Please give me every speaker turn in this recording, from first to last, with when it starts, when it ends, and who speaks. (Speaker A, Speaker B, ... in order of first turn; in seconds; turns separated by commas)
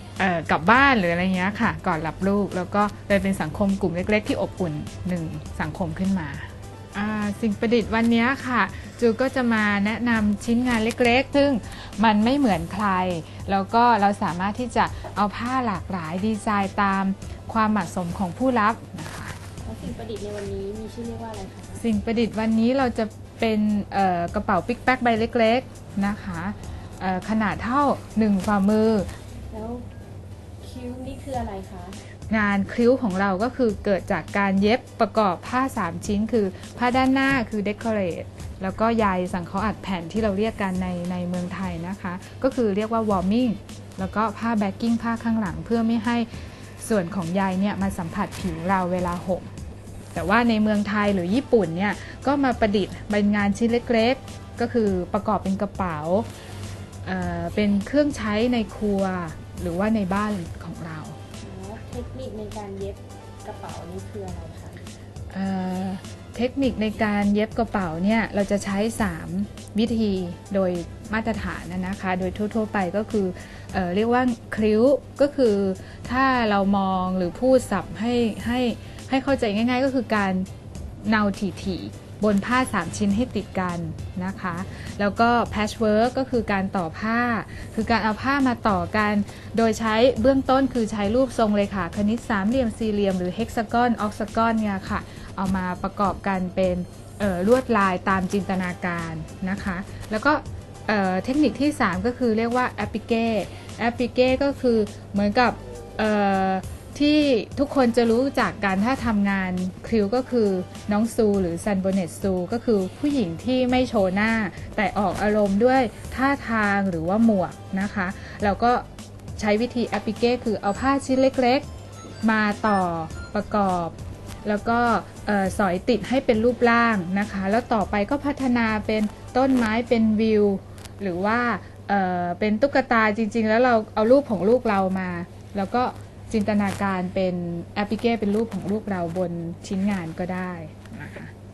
Speaker A: 0.2-19.4, Speaker B: 19.6-21.8, Speaker A: 21.8-29.1, Speaker B: 29.5-29.9, Speaker B: 30.6-32.0, Speaker A: 32.3-46.3, Speaker A: 46.8-49.5, Speaker A: 50.1-56.3, Speaker A: 57.0-61.2, Speaker B: 61.4-64.8, Speaker A: 65.3-80.5, Speaker A: 81.0-118.8, Speaker A: 119.4-121.7, Speaker A: 122.2-141.3